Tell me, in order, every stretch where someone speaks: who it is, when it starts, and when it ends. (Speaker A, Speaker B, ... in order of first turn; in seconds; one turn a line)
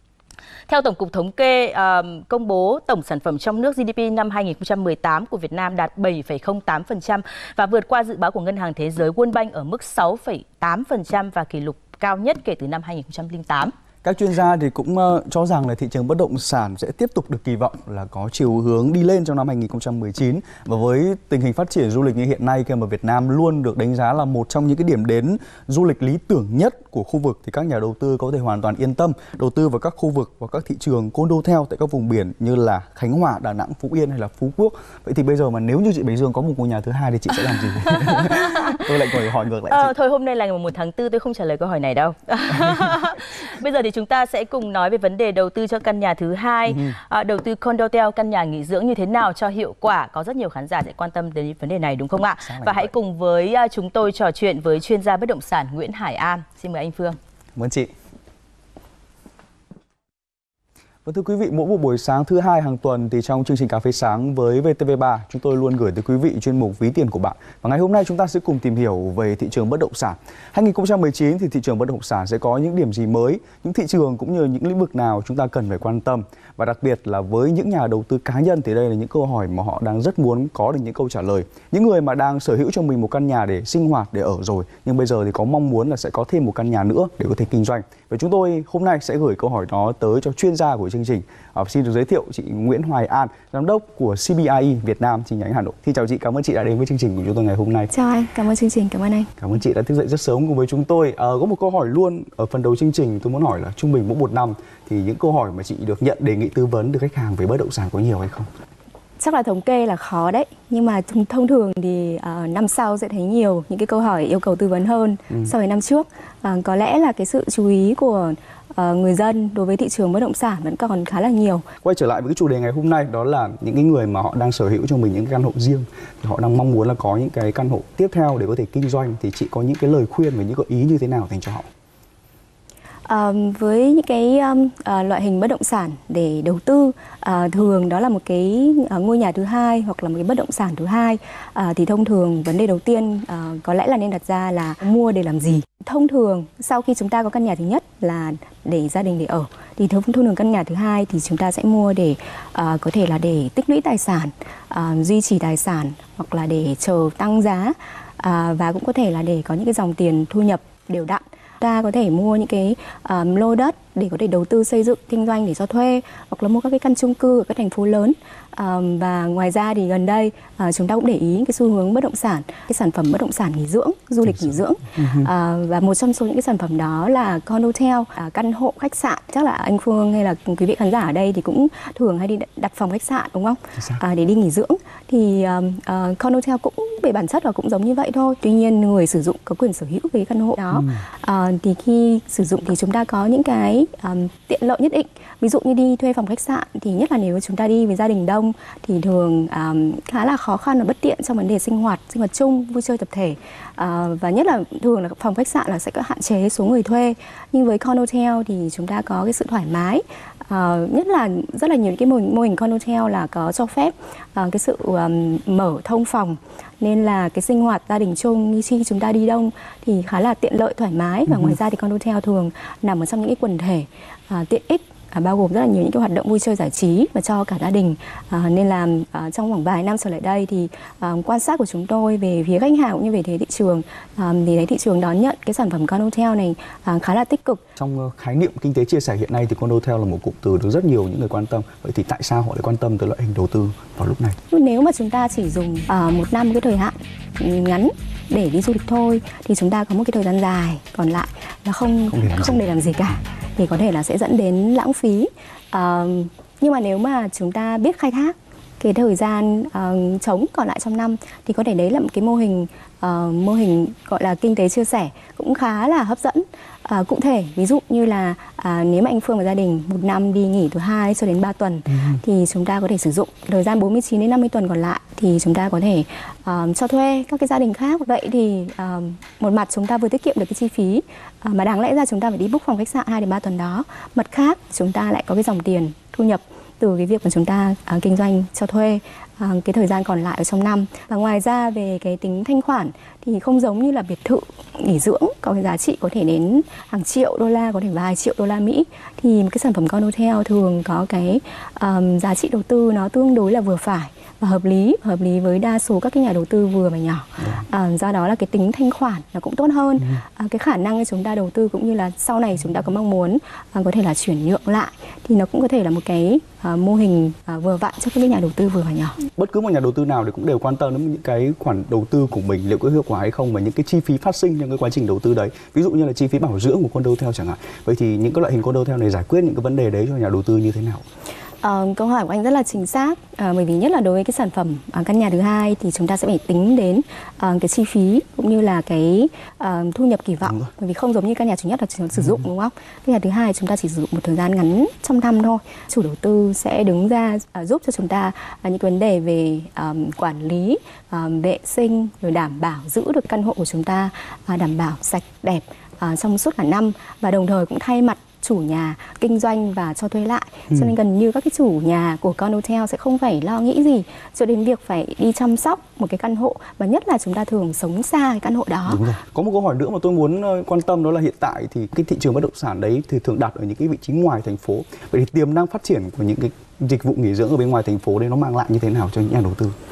Speaker A: 0.7-13.7
Speaker B: 14.0-39.9
Speaker A: 37.9-38.8
Speaker A: 39.7-57.2
Speaker B: 46.7-47.0
Speaker B: 52.4-52.9
Speaker B: 57.6-57.9
Speaker B: 61.0-97.9
Speaker C: 97.9-99.3
Speaker B: 99.4-108.5
Speaker C: 109.2-121.7
Speaker B: 121.8-131.7
Speaker C: 133.1-237.6
Speaker B: 175.0-175.3
Speaker B: 237.8-244.4
Speaker C: 244.5-319.2
Speaker B: 252.1-252.6
Speaker B: 319.4-331.0
Speaker C: 331.6-369.0
Speaker B: 368.9-379.8